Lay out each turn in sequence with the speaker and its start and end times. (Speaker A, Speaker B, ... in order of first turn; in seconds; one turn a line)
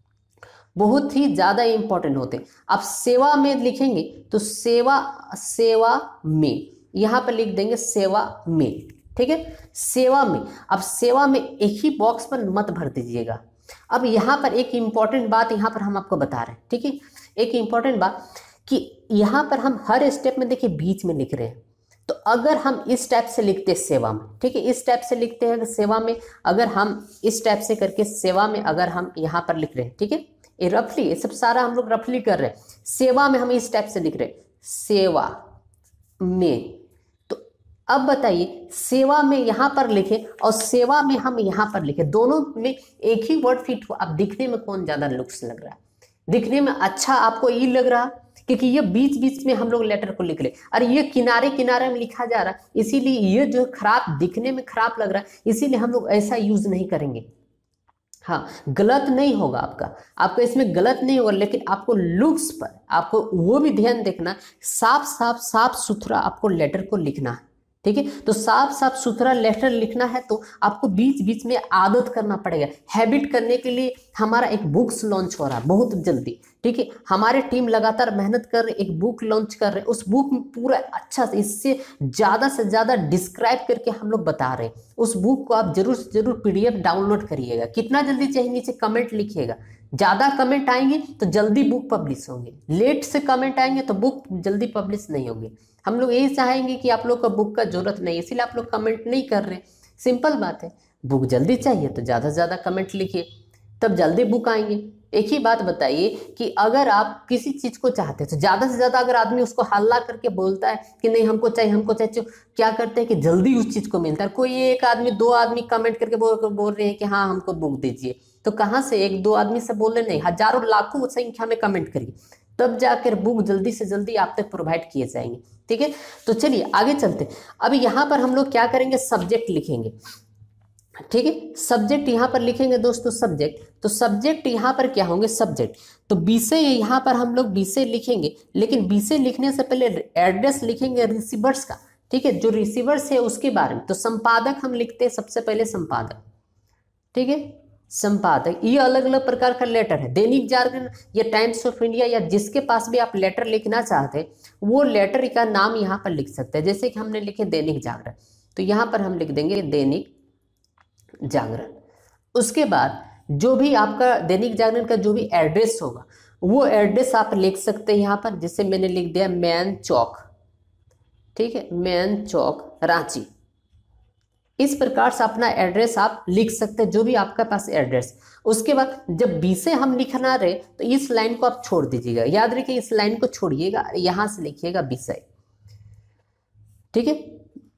Speaker A: 0.8-35.4
Speaker A: 36.2-57.2
Speaker A: 58.2-103.3
Speaker A: 103.8-129.9
Speaker A: 131.1-146.2
Speaker A: 147.1-160.1
Speaker A: 161.2-161.8
Speaker A: 162.3-170.2
Speaker A: 171.3-173.2
Speaker A: 174.6-185.2
Speaker A: 186.9-187.4